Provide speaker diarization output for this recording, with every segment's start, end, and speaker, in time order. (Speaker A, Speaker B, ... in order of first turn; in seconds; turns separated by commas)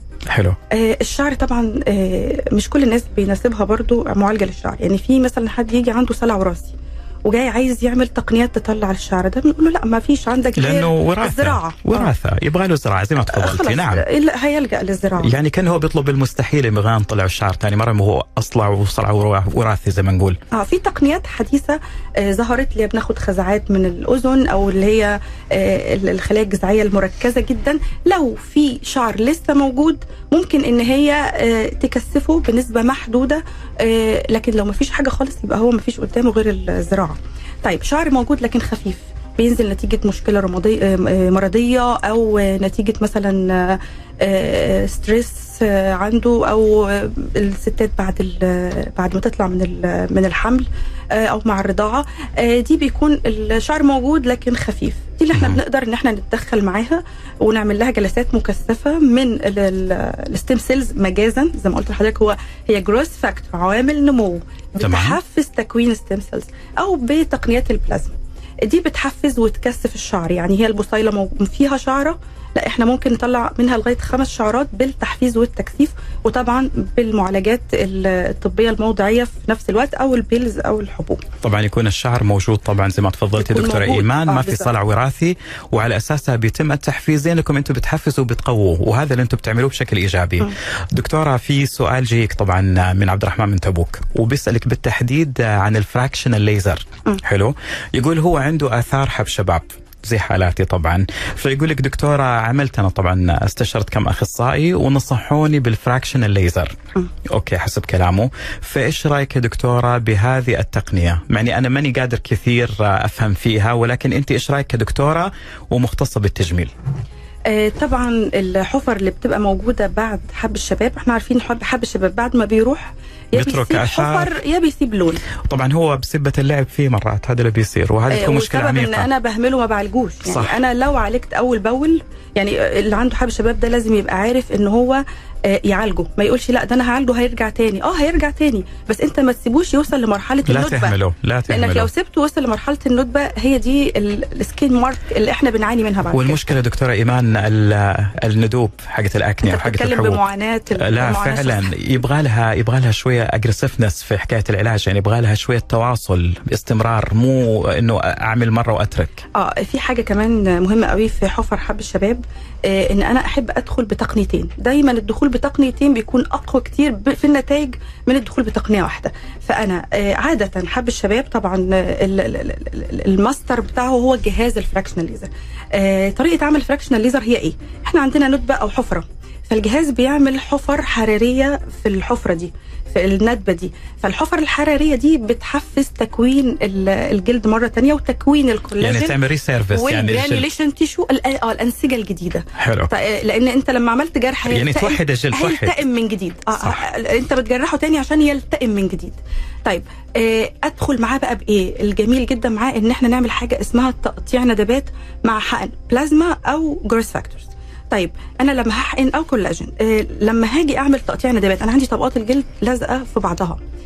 Speaker A: 0.3-0.6, Speaker B: 0.7-12.1, Speaker A: 10.6-14.1, Speaker B: 13.3-15.3, Speaker A: 15.2-20.4, Speaker B: 20.5-81.2, Speaker A: 55.3-55.6, Speaker A: 64.8-65.2, Speaker A: 81.4-116.7, Speaker B: 83.4-84.7, Speaker B: 117.5-125.2, Speaker A: 123.3-124.3, Speaker A: 125.4-129.1, Speaker B: 128.1-141.0, Speaker A: 130.3-130.6, Speaker A: 140.5-141.9, Speaker B: 141.5-146.5, Speaker A: 146.1-150.2, Speaker B: 149.4-151.7, Speaker A: 150.8-159.2, Speaker B: 159.3-189.2, Speaker A: 188.8-190.5, Speaker B: 189.7-213.6, Speaker A: 192.6-192.9, Speaker A: 194.4-195.8